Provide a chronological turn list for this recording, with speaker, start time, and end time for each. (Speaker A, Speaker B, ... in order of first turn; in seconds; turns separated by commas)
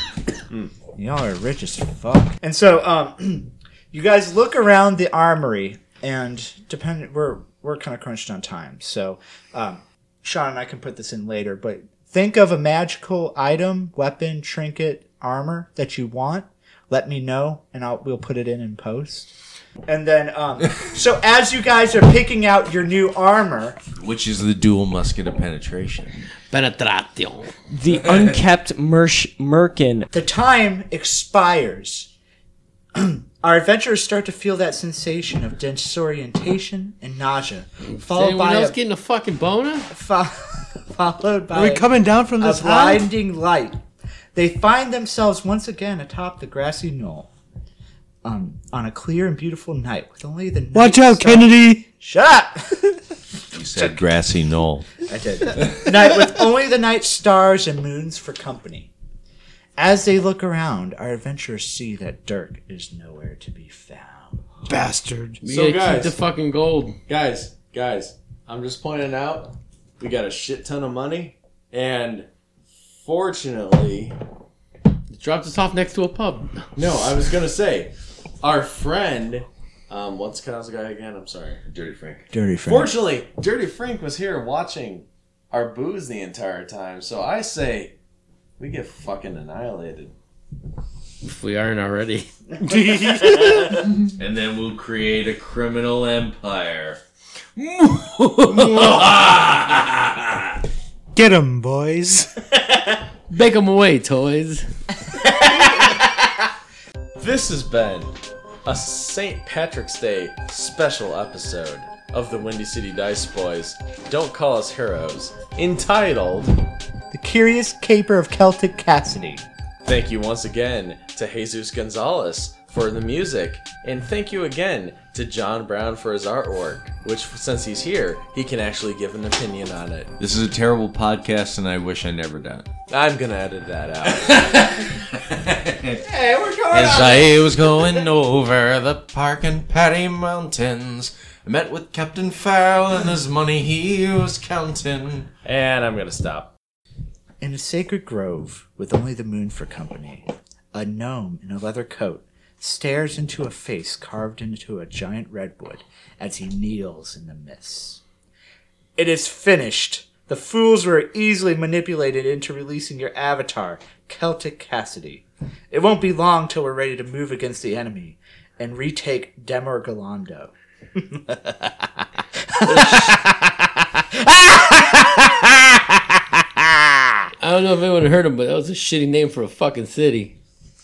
Speaker A: 0.9-19.3, Speaker A: 19.9-23.8, Speaker B: 24.0-26.3, Speaker C: 26.5-27.6, Speaker D: 27.7-30.1, Speaker B: 28.0-28.4, Speaker A: 30.1-32.1, Speaker A: 32.9-38.8, Speaker C: 37.9-39.9, Speaker A: 39.9-41.9, Speaker E: 41.5-43.1, Speaker A: 42.4-43.8, Speaker A: 44.3-47.3, Speaker A: 48.2-53.0, Speaker E: 50.7-51.9, Speaker B: 53.5-54.9, Speaker A: 55.0-58.9, Speaker A: 59.8-64.4, Speaker E: 64.7-65.4, Speaker C: 65.4-67.0, Speaker F: 65.5-66.2, Speaker F: 67.1-72.3, Speaker F: 73.0-74.2, Speaker C: 75.1-76.7, Speaker F: 76.8-81.6, Speaker B: 81.6-82.3, Speaker A: 82.3-83.0, Speaker F: 82.7-87.9, Speaker F: 88.6-90.1, Speaker C: 91.2-93.2, Speaker A: 92.6-93.9, Speaker E: 92.7-93.5, Speaker B: 94.0-97.0, Speaker C: 97.6-98.9, Speaker B: 98.5-100.5, Speaker E: 101.1-102.4, Speaker C: 103.3-104.6, Speaker A: 105.1-106.1, Speaker F: 107.2-108.1, Speaker F: 108.6-116.5, Speaker A: 117.1-119.4, Speaker F: 119.8-130.1, Speaker B: 130.2-132.7, Speaker F: 132.9-134.4, Speaker B: 134.1-136.1, Speaker A: 136.0-138.1, Speaker B: 136.7-145.3, Speaker F: 145.4-146.5, Speaker A: 147.4-158.0, Speaker A: 159.0-177.2, Speaker C: 177.4-180.4